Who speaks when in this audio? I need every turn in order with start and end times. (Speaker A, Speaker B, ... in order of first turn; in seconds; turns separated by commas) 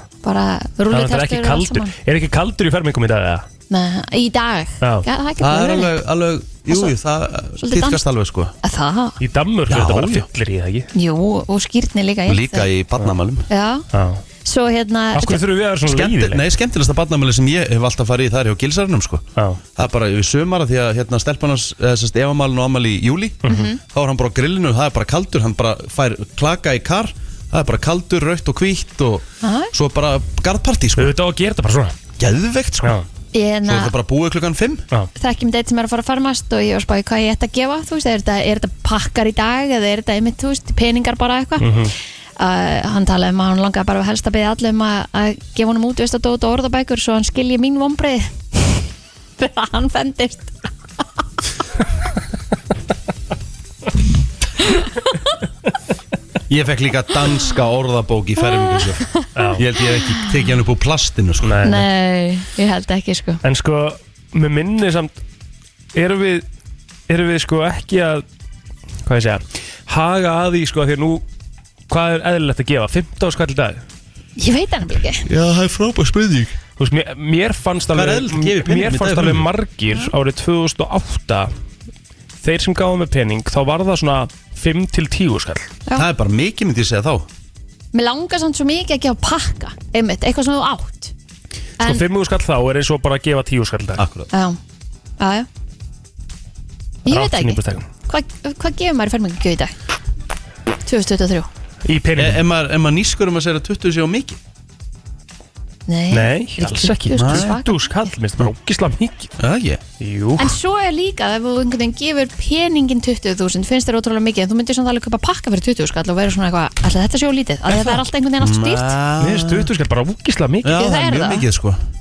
Speaker A: 0.2-1.9, Speaker B: 0.9-3.5, Speaker A: 3.7-6.0, Speaker B: 4.8-5.0, Speaker C: 5.4-8.5, Speaker A: 7.6-8.0, Speaker A: 8.6-9.2, Speaker B: 9.2-10.9, Speaker C: 9.7-10.3, Speaker A: 10.9-12.7, Speaker C: 12.3-13.5, Speaker A: 13.5-13.9, Speaker B: 13.9-14.2, Speaker A: 14.4-15.4, Speaker B: 15.1-16.4, Speaker C: 15.8-19.2, Speaker B: 19.4-19.6, Speaker C: 19.8-31.1, Speaker A: 23.4-23.8, Speaker A: 29.4-29.7, Speaker B: 31.0-32.0, Speaker C: 32.2-33.0, Speaker A: 33.3-33.9, Speaker C: 33.6-34.8, Speaker A: 35.1-48.8, Speaker B: 41.6-41.9, Speaker A: 49.4-50.6, Speaker C: 56.5-61.6, Speaker A: 58.7-59.5, Speaker B: 59.4-59.6, Speaker B: 61.4-61.9, Speaker A: 61.6-63.4, Speaker B: 63.4-65.2, Speaker B: 65.9-66.4, Speaker B: 67.1-68.2, Speaker B: 69.0-71.2, Speaker B: 71.9-73.8, Speaker A: 74.4-75.3, Speaker C: 75.2-76.6, Speaker B: 76.8-81.5, Speaker C: 77.9-79.5, Speaker B: 82.4-85.7, Speaker C: 85.9-87.2, Speaker A: 87.9-91.1, Speaker B: 91.8-94.0, Speaker C: 94.0-94.3, Speaker A: 94.3-94.6, Speaker A: 95.2-95.5, Speaker A: 97.0-99.7, Speaker B: 97.1-97.8, Speaker A: 100.8-101.5, Speaker B: 101.8-102.4, Speaker C: 102.2-104.4, Speaker A: 105.9-107.8, Speaker B: 106.1-109.3, Speaker C: 107.2-107.5, Speaker C: 109.4-109.8, Speaker B: 110.0-110.5, Speaker A: 110.4-118.9, Speaker C: 118.4-119.7, Speaker B: 119.2-120.8, Speaker C: 120.6-121.8, Speaker A: 120.7-121.4